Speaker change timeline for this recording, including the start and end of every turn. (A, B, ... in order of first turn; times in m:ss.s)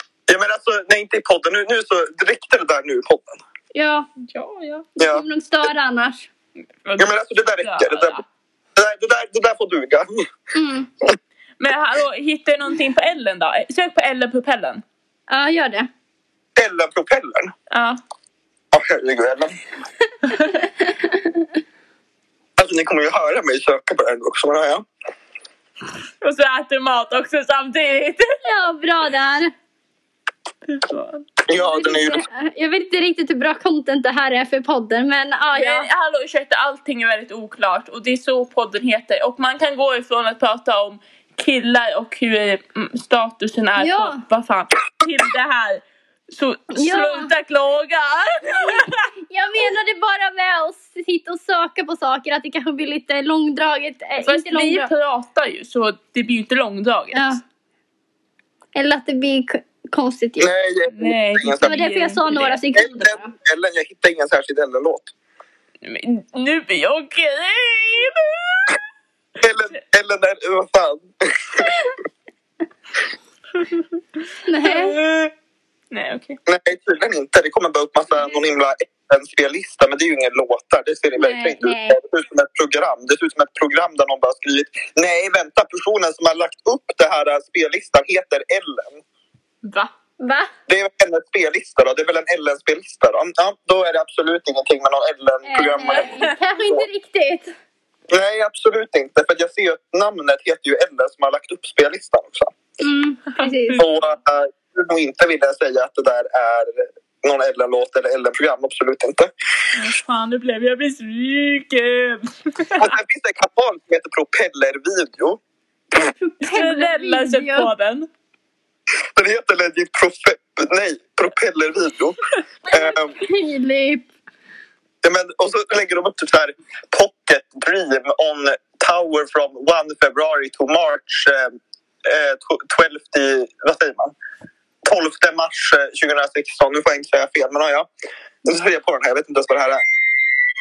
0:00.3-0:03.4 A
0:03.7-0:04.1 B
0:04.2-0:04.9 C
0:05.0-0:06.3 B
0:05.0-0:05.2 A
0:06.8-0:08.2 C
0:07.0-0:08.2 A
0:08.8-0:10.3 A
0:10.5-0:10.9 B
0:11.6-0:14.8 C
0:15.3-0:15.9 B
0:16.6-0:17.5 A
0:17.7-0:18.0 C
0:18.7-0:19.6 A
0:20.3-0:20.6 C
0:20.9-0:21.3 B
0:22.6-0:24.9 A
0:26.2-0:28.3 C
0:28.4-0:29.5 B
0:30.7-0:31.3 C
0:31.5-0:32.2 A
0:31.5-0:35.9 B
0:35.5-0:49.0 C
0:43.8-0:44.2 B
0:46.7-0:47.3 B
0:48.6-0:54.9 B
0:54.2-0:57.4 C
0:57.1-0:57.4 B
0:58.7-1:00.5 B
1:00.4-1:01.8 A
1:00.9-1:02.6 C
1:01.6-1:03.3 B
1:02.8-1:05.1 A
1:05.8-1:08.8 C
1:09.4-1:11.8 A
1:14.4-1:15.0 B
1:14.6-1:15.3 C
1:15.9-1:16.4 C
1:16.4-1:29.0 A
1:21.2-1:22.0 B
1:29.6-1:29.9 C
1:30.2-1:30.5 B
1:30.7-1:36.8 A
1:35.4-1:37.5 B
1:36.0-1:36.3 C
1:38.1-1:42.6 A
1:42.8-1:43.9 B
1:43.4-1:44.1 C
1:43.8-1:49.3 A
1:49.7-1:52.9 C
1:52.8-1:55.4 A
1:56.0-1:57.7 B
1:56.4-1:58.1 C
1:59.1-2:02.2 A
2:02.7-2:03.2 A
2:02.7-2:04.0 B
2:05.0-2:14.1 A
2:14.8-2:17.9 A
2:18.4-2:19.8 A